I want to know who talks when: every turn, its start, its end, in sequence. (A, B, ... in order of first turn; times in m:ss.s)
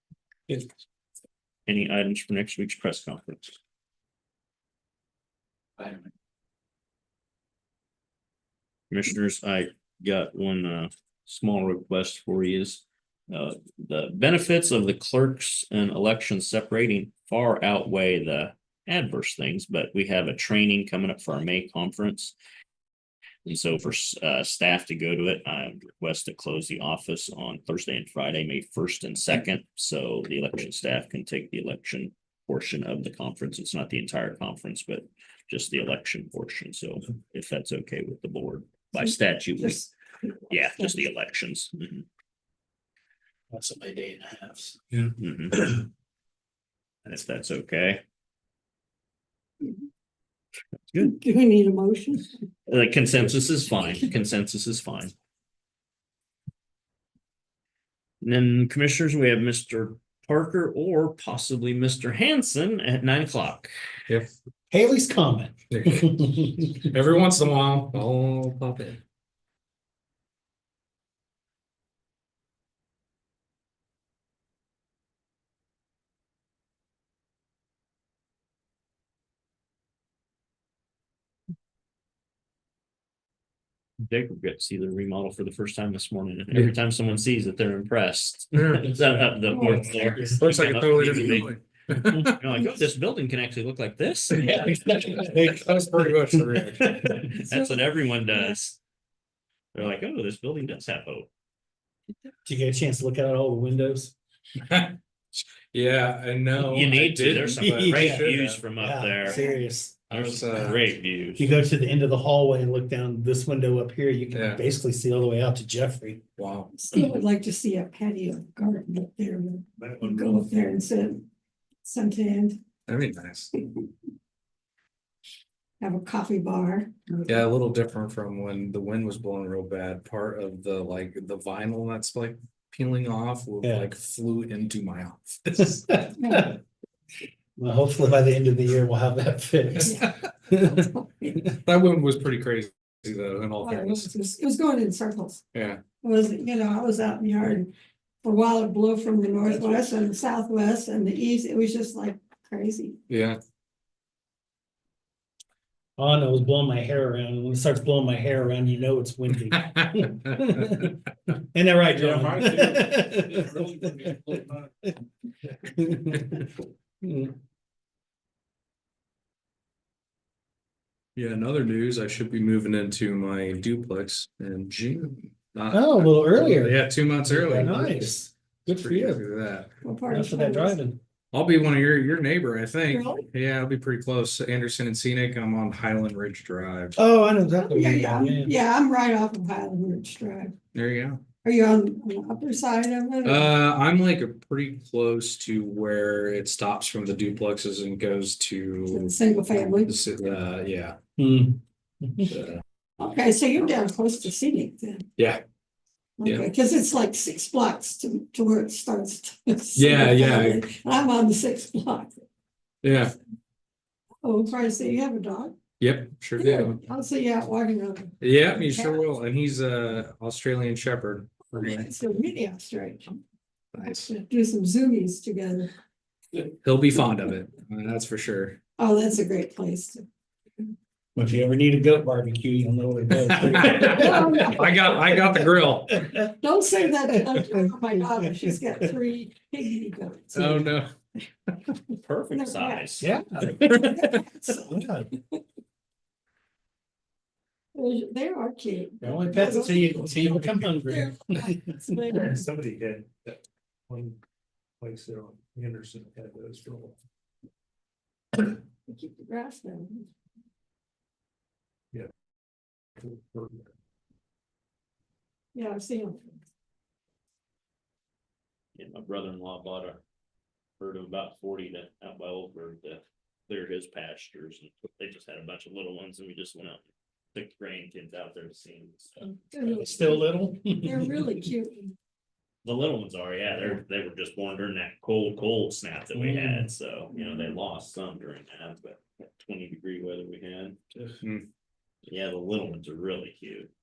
0:01.7-0:03.5 A
0:08.9-0:22.3 A
0:23.4-0:39.8 A
0:39.6-0:39.9 B
0:40.5-0:42.0 A
0:43.5-0:44.7 C
0:45.2-0:45.8 A
0:47.0-0:48.0 A
0:51.0-0:52.3 B
0:52.7-0:55.1 A
0:58.2-1:03.7 A
1:04.7-1:06.7 C
1:05.7-1:06.2 D
1:06.7-1:09.0 D
1:24.1-1:31.5 A
1:28.5-1:29.0 D
1:29.5-1:30.4 B
1:29.9-1:30.3 C
1:30.3-1:32.4 D
1:32.3-1:34.7 A
1:34.4-1:37.1 C
1:34.4-1:37.2 D
1:37.1-1:38.8 A
1:39.7-1:41.3 A
1:42.4-1:44.1 C
1:44.6-1:48.6 D
1:46.6-1:49.4 A
1:47.6-1:50.1 C
1:49.3-1:49.6 B
1:50.1-1:50.8 D
1:50.1-1:51.5 A
1:51.4-1:56.2 C
1:54.3-1:54.6 D
1:56.4-1:56.7 D
1:56.7-2:01.3 B
2:01.8-2:02.6 B
2:02.9-2:03.5 D
2:05.8-2:07.4 B
2:07.3-2:16.0 D
2:13.6-2:13.9 C
2:15.6-2:16.6 C
2:16.2-2:16.6 B
2:17.6-2:20.9 C
2:19.8-2:21.4 B
2:21.5-2:24.1 D
2:23.6-2:25.4 B
2:25.5-2:25.8 D
2:26.0-2:27.7 B
2:28.2-2:33.0 B
2:33.1-2:33.4 D
2:36.0-2:43.6 C
2:39.5-2:40.9 D
2:42.0-2:44.7 E
2:45.6-2:46.5 C
2:47.0-2:47.3 C
2:51.2-2:59.7 D
2:55.7-2:59.2 C
2:59.8-3:00.8 B
3:00.1-3:01.0 C
3:01.3-3:07.0 D
3:02.9-3:03.3 B
3:07.0-3:08.5 C
3:07.5-3:10.6 B
3:10.7-3:11.2 D
3:11.4-3:13.6 B
3:13.2-3:19.1 D
3:18.9-3:20.0 B
3:19.8-3:21.0 D
3:21.2-3:22.3 C
3:22.2-3:22.6 D
3:23.0-3:25.1 B
3:25.2-3:25.4 D
3:26.2-3:32.2 B
3:29.8-3:30.6 D
3:32.8-3:33.1 D
3:34.2-3:35.6 B
3:35.8-3:36.8 D
3:36.4-3:39.1 B
3:38.2-3:41.8 D
3:41.5-3:43.2 B
3:43.7-3:44.0 D
3:43.8-3:45.7 B
3:46.6-3:48.6 D
3:48.8-3:50.0 B
3:51.1-3:55.4 C
3:53.1-3:56.2 D
3:53.9-3:55.0 B
3:55.9-3:56.2 C
3:56.3-4:00.6 B
3:57.1-3:58.8 C
4:00.3-4:00.9 D
4:02.0-4:03.1 A
4:02.3-4:05.4 B
4:03.0-4:03.9 C
4:04.6-4:05.1 C
4:07.7-4:12.4 B
4:09.0-4:12.2 C
4:12.2-4:14.2 E
4:14.8-4:17.0 E
4:18.9-4:20.1 B
4:23.0-4:23.7 E
4:25.5-4:26.4 B
4:28.8-4:30.0 A
4:30.8-4:39.3 A
4:39.3-4:41.9 B
4:39.6-4:41.4 C
4:42.6-4:51.1 A
4:51.2-4:51.5 D
4:52.1-4:53.7 A